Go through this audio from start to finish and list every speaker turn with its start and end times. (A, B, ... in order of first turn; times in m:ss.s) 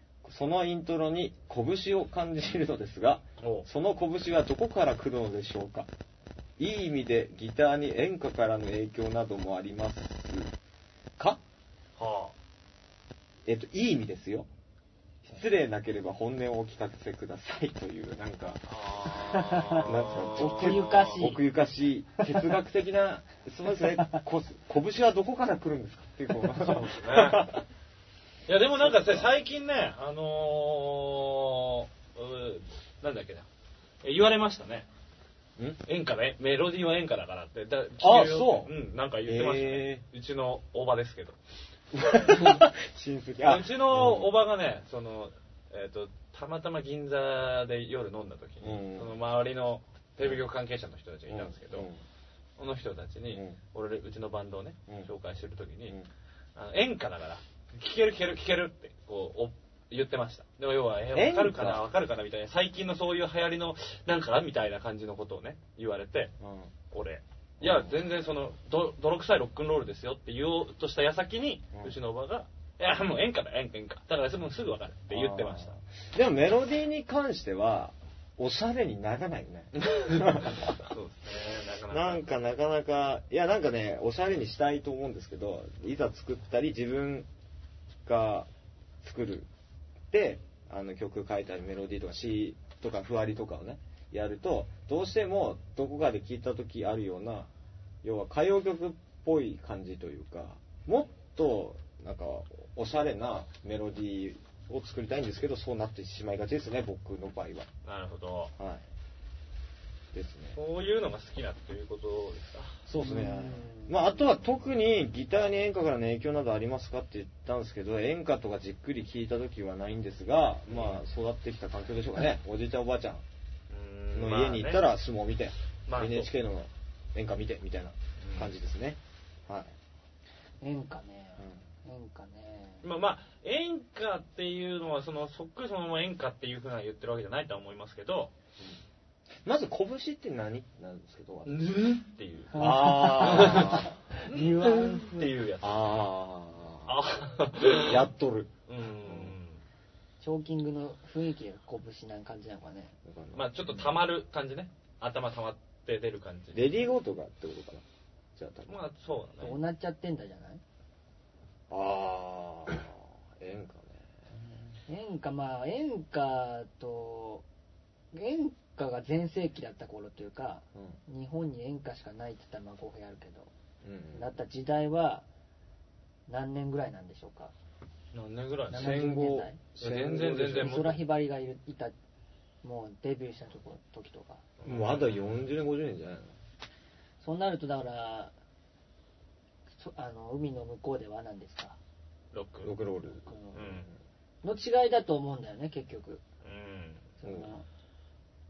0:00.2-0:05.9 A
0:03.4-0:03.6 B
0:06.6-0:10.5 A
0:12.0-0:12.3 B
0:13.4-0:14.5 A
0:15.2-0:18.6 A
0:18.7-0:21.2 B
0:19.3-0:21.4 C
0:19.7-0:27.6 A
0:26.6-0:27.4 B
0:28.5-0:33.5 B
0:28.8-0:29.3 A
0:34.0-0:34.8 B
0:35.8-0:41.4 B
0:38.0-0:40.0 A
0:41.9-0:44.3 A
0:43.4-0:51.9 B
0:48.6-0:49.2 A
0:51.3-0:52.0 A
0:52.6-0:55.9 B
0:53.3-0:53.6 A
0:56.6-1:06.3 B
1:01.1-1:01.9 A
1:06.4-1:06.7 A
1:06.9-1:15.7 B
1:07.6-1:08.0 A
1:15.1-1:20.9 A
1:20.0-1:22.2 B
1:21.9-1:27.3 A
1:28.0-1:28.5 A
1:29.0-1:29.5 A
1:30.1-1:37.5 A
1:38.0-1:47.7 A
1:47.8-1:48.5 B
1:48.6-1:48.8 A
1:50.1-1:50.6 A
1:50.5-1:52.8 B
1:52.8-2:03.2 A
1:53.0-1:54.0 C
2:03.7-2:04.8 B
2:04.1-2:09.7 A
2:05.9-2:06.3 B
2:08.2-2:08.5 B
2:10.6-2:12.9 C
2:12.8-2:18.3 B
2:19.4-2:21.7 A
2:21.4-2:23.7 B
2:22.5-2:25.4 C
2:22.6-2:23.9 A
2:24.3-2:25.8 B
2:25.6-2:27.1 A
2:26.9-2:28.0 B
2:27.6-2:29.3 A
2:28.7-2:29.6 B
2:30.2-2:32.9 C
2:33.0-2:33.9 A
2:33.3-2:36.6 B
2:36.5-2:37.8 A
2:38.4-2:38.8 A
2:38.7-2:39.6 B
2:39.4-2:40.6 C
2:41.7-2:44.1 A
2:44.9-2:47.4 C
2:48.1-2:53.5 C
2:53.8-2:54.3 A
2:54.1-2:55.2 C
2:56.3-2:57.5 C
2:58.1-2:59.0 B
2:58.7-2:59.6 C
2:58.7-3:00.8 A
2:59.8-3:01.0 B
3:00.2-3:01.9 C
3:02.6-3:04.4 C
3:04.6-3:05.3 B
3:04.6-3:06.3 A
3:07.2-3:08.3 C
3:09.8-3:11.8 C
3:12.3-3:12.7 B
3:12.6-3:13.3 A
3:13.2-3:13.8 C
3:13.5-3:13.9 B
3:14.4-3:16.2 C
3:16.4-3:17.0 B
3:17.2-3:17.6 C
3:17.2-3:17.5 A